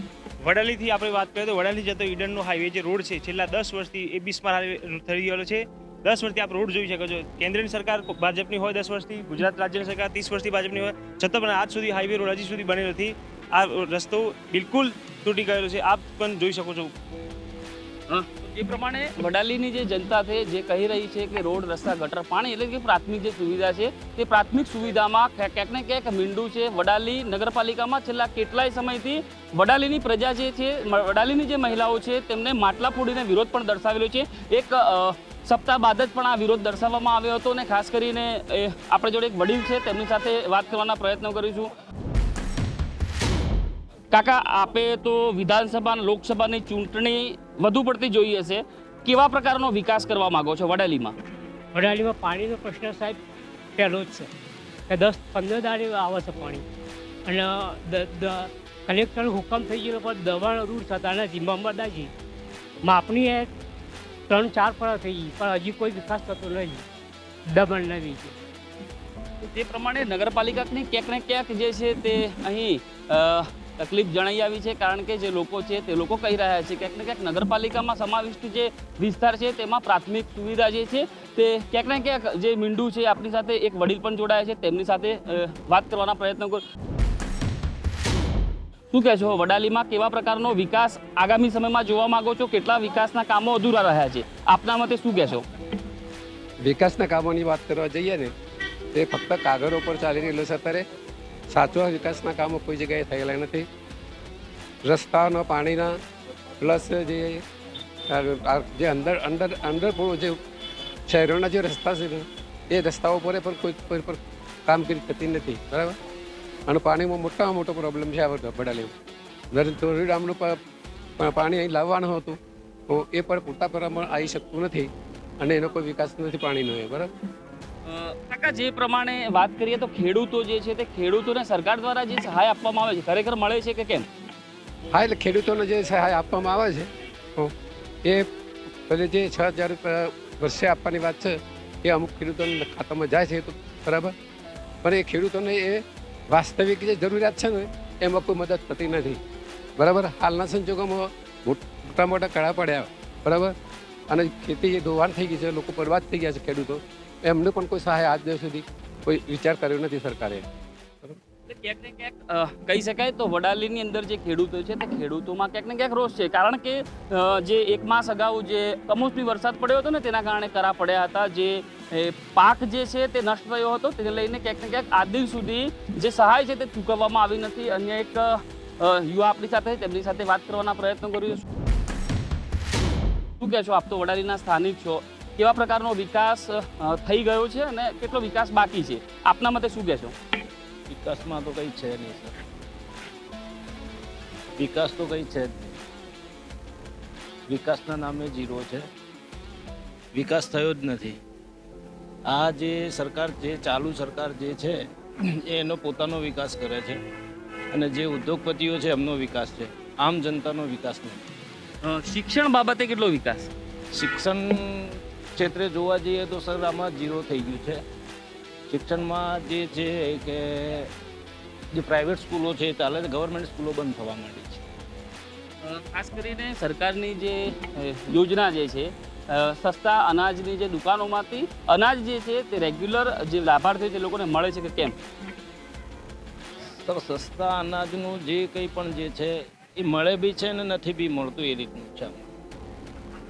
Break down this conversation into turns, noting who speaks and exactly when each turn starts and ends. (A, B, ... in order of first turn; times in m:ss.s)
0:00.4-0:16.9 A
0:18.1-0:41.7 B
0:44.1-0:51.1 B
0:51.7-0:53.2 C
0:53.8-0:54.3 C
0:54.9-0:56.6 C
0:57.3-1:02.1 C
1:02.8-1:03.5 C
1:04.3-1:06.8 C
1:07.5-1:08.4 C
1:09.4-1:26.6 B
1:28.9-1:35.4 B
1:36.6-1:38.3 D
1:39.0-1:40.8 D
1:41.5-1:43.7 D
1:44.8-1:45.9 D
1:46.6-1:47.4 D
1:48.1-1:50.4 D
1:51.1-1:56.0 D
1:56.7-1:58.9 D
1:59.5-2:00.6 D
2:01.2-2:02.4 D
2:02.9-2:04.9 D
2:05.4-2:07.1 D
2:07.9-2:14.1 B
2:14.9-2:17.5 D
2:18.9-2:24.1 D
2:24.8-2:29.2 D
2:29.8-2:33.5 D
2:34.1-2:40.5 D
2:41.5-2:58.3 B
2:58.8-3:01.4 B
3:03.4-3:10.1 B
3:10.9-3:12.4 E
3:14.6-3:15.8 E
3:17.5-3:18.9 E
3:20.1-3:21.2 E
3:22.3-3:24.8 E
3:25.4-3:27.0 E
3:27.7-3:31.2 E
3:31.8-3:33.5 B
3:33.9-3:37.8 E
3:38.7-3:40.9 E
3:41.7-3:44.6 E
3:45.6-3:54.9 B
3:56.8-4:02.3 E